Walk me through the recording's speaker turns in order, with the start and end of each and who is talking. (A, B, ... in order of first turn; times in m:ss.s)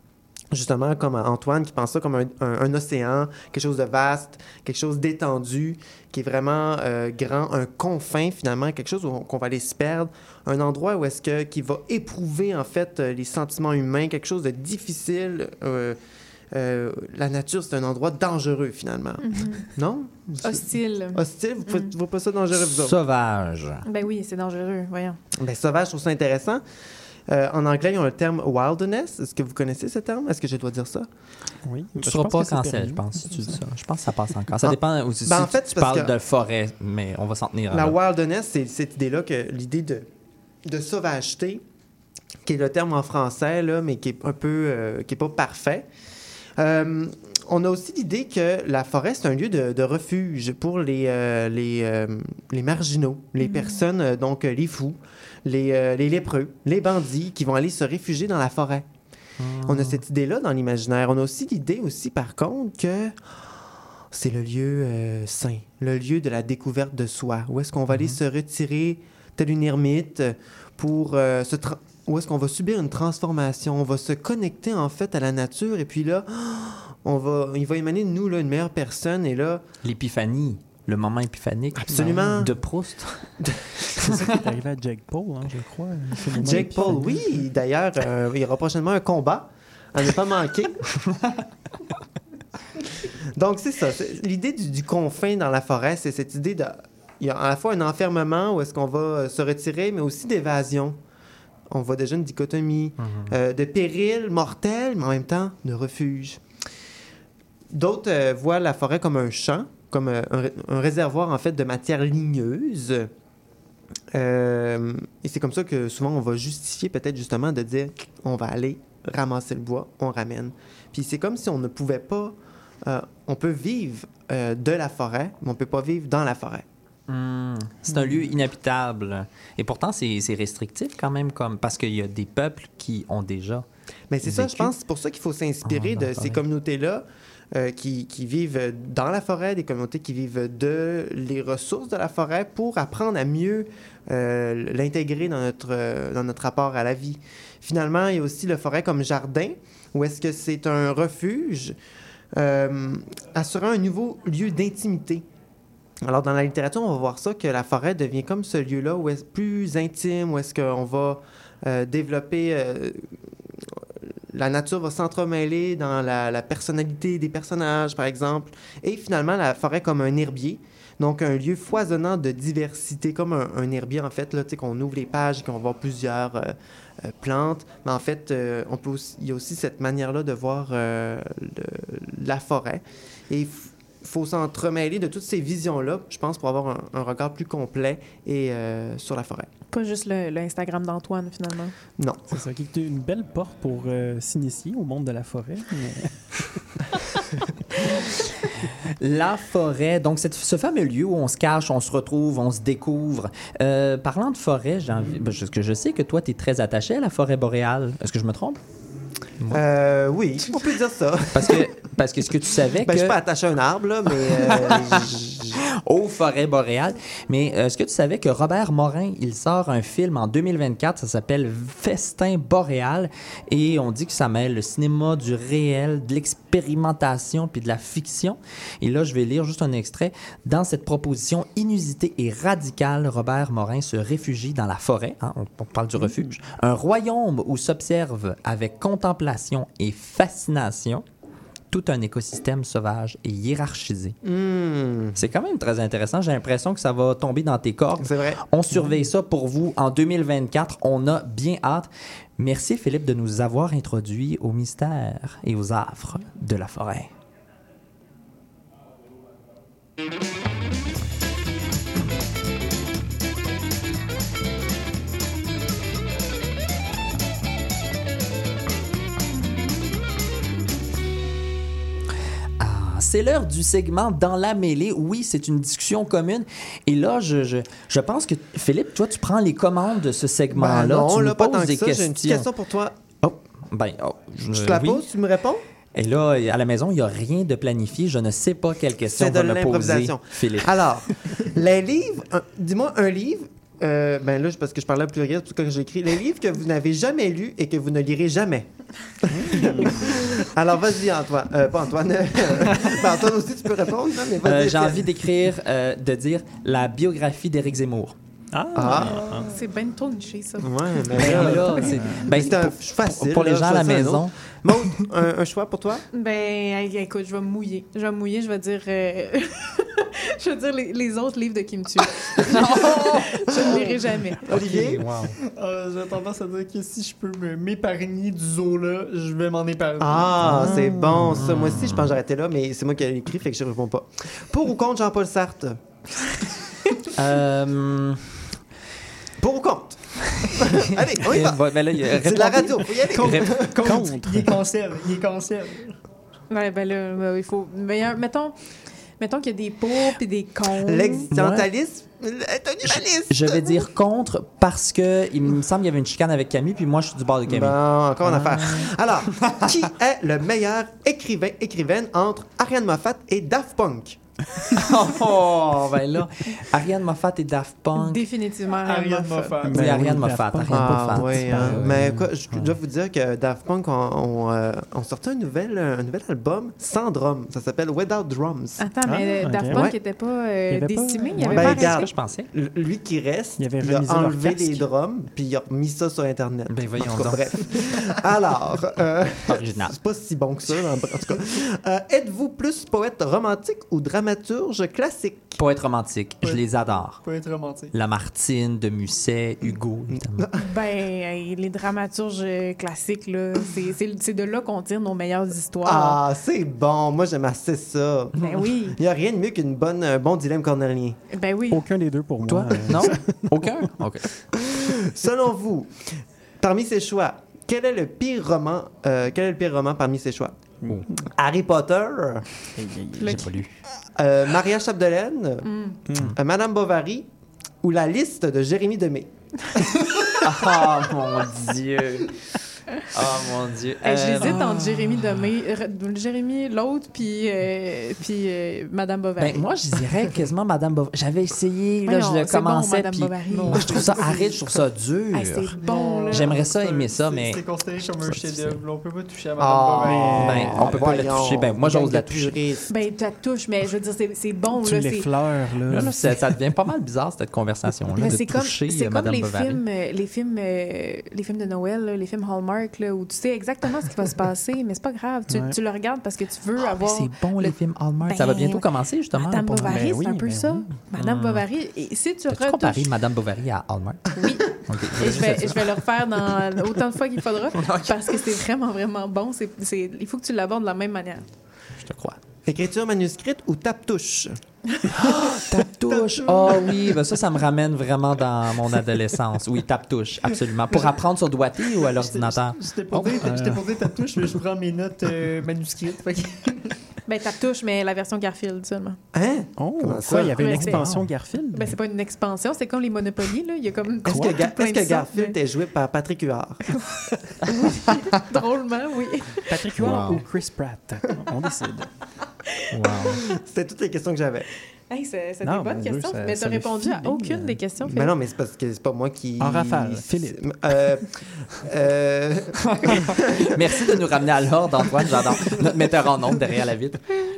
0:00.5-0:16.0 A
0:16.5-0:23.0 A
0:19.2-0:19.7 B
0:20.4-0:21.9 B
0:22.7-0:23.8 C
0:23.8-0:25.2 B
0:25.4-0:26.6 A
0:27.3-0:31.1 A
0:31.6-0:33.6 D
0:32.0-0:38.0 C
0:34.6-0:36.1 A
0:37.7-0:40.1 A
0:40.6-0:41.6 A
0:42.4-0:45.9 A
0:46.6-0:58.9 A
0:53.4-0:53.7 B
0:59.4-1:00.0 C
0:59.6-1:03.2 A
1:04.1-1:19.6 A
1:19.8-1:23.3 C
1:21.9-1:22.4 D
1:21.9-1:22.5 A
1:23.4-1:23.7 A
1:24.0-1:24.3 C
1:24.0-1:27.4 D
1:26.4-1:30.8 A
1:26.4-1:26.8 C
1:33.0-1:41.0 A
1:41.7-1:46.4 A
1:43.0-1:43.3 C
1:47.7-1:53.1 A
1:54.1-2:06.6 A
2:07.1-2:13.6 C
2:14.1-2:31.8 A
2:14.2-2:14.7 C
2:15.6-2:16.4 C
2:32.4-2:35.2 A
2:36.0-2:43.8 A
2:44.3-3:09.5 A
3:09.7-3:11.7 B
3:12.0-3:12.2 A
3:12.3-3:16.3 D
3:19.0-3:28.6 C
3:29.5-3:31.7 A
3:31.3-3:33.2 C
3:32.8-3:35.6 A
3:34.2-3:35.1 C
3:35.8-4:01.0 C
4:01.7-4:04.2 C
4:04.2-4:05.2 A
4:05.2-4:17.1 C
4:08.0-4:08.4 A
4:32.6-4:42.5 C
4:40.5-4:43.0 A
4:43.2-4:45.0 C
4:44.5-4:45.6 A
4:45.9-4:51.3 C
4:49.0-4:58.7 A
4:59.2-5:05.1 A
4:59.3-5:00.3 D
5:04.4-5:08.2 C
5:08.5-5:09.5 D
5:08.8-5:09.3 A
5:08.9-5:11.4 B
5:10.6-5:16.0 A
5:11.2-5:12.3 D
5:11.2-5:14.4 C
5:16.1-5:24.4 B
5:22.5-5:23.8 C
5:24.5-5:25.1 A
5:24.5-5:25.4 C
5:24.5-5:30.6 E
5:30.0-5:35.8 A
5:30.5-5:32.1 C
5:37.1-5:38.4 C
5:39.4-5:43.9 A
5:41.2-5:43.9 C
5:43.4-5:46.0 E
5:43.8-5:44.5 D
5:46.5-5:48.6 B
5:49.2-5:51.3 B
5:50.8-5:53.8 A
5:51.3-5:51.7 C
5:53.3-5:58.9 C
5:57.4-6:04.2 A
5:59.4-5:59.8 C
6:04.7-6:08.3 C
6:08.0-6:09.7 B
6:08.8-6:10.0 E
6:09.6-6:12.7 D
6:09.7-6:12.1 C
6:10.7-6:18.9 A
6:18.8-6:22.0 B
6:19.0-6:19.9 D
6:19.7-6:19.9 A
6:20.7-6:21.7 D
6:21.4-6:35.6 A
6:21.5-6:22.5 C
6:23.6-6:24.8 D
6:26.7-6:28.1 C
6:29.5-6:29.9 C
6:35.6-6:37.2 C
6:37.2-6:37.9 E
6:37.9-6:40.4 C
6:40.1-6:40.6 A
6:40.6-6:46.2 B
6:45.8-6:51.2 A
6:48.4-6:49.0 B
6:51.3-6:51.8 B
6:51.7-6:53.8 D
6:52.4-6:54.3 C
6:54.7-7:00.6 A
7:00.8-7:01.3 D
7:01.3-7:02.4 A
7:02.8-7:03.5 D
7:03.2-7:03.4 B
7:03.2-7:03.8 C
7:04.1-7:05.7 A
7:05.6-7:06.0 B
7:06.1-7:06.4 D
7:06.3-7:07.3 A
7:07.8-7:09.3 A
7:10.4-7:12.4 C
7:13.1-7:15.4 C
7:14.0-7:19.7 B
7:19.4-7:27.6 C
7:22.0-7:24.3 B
7:23.5-7:24.4 E
7:25.3-7:26.5 B
7:25.8-7:30.9 E
7:28.2-7:28.8 C
7:29.6-7:32.9 A
7:30.0-7:31.3 D
7:30.3-7:32.6 C
7:32.9-7:35.3 B
7:34.8-7:36.5 D
7:35.9-7:39.8 C
7:38.2-7:48.9 B
7:45.5-7:45.8 D
7:46.8-7:50.0 C
7:49.4-7:53.1 B
7:49.8-7:51.0 D
7:51.2-7:51.6 C
7:52.5-7:56.0 C
7:54.4-7:54.6 B
7:55.2-8:01.4 B
7:57.7-7:58.5 C
8:02.0-8:02.4 C
8:02.6-8:04.6 A
8:05.5-8:13.8 C
8:06.1-8:07.2 E
8:11.8-8:17.0 E
8:17.3-8:19.2 B
8:19.3-8:21.0 A
8:19.8-8:22.0 D
8:20.5-8:21.1 B
8:21.7-8:25.5 B
8:24.2-8:26.8 A
8:26.9-8:27.2 B
8:27.8-8:29.7 B
8:29.7-8:32.1 D
8:29.9-8:30.4 C
8:32.9-8:33.4 C
8:33.4-8:34.6 A
8:35.1-8:38.3 B
8:35.6-8:37.8 D
8:38.0-8:43.7 A
8:39.6-8:40.7 D
8:43.0-8:47.3 C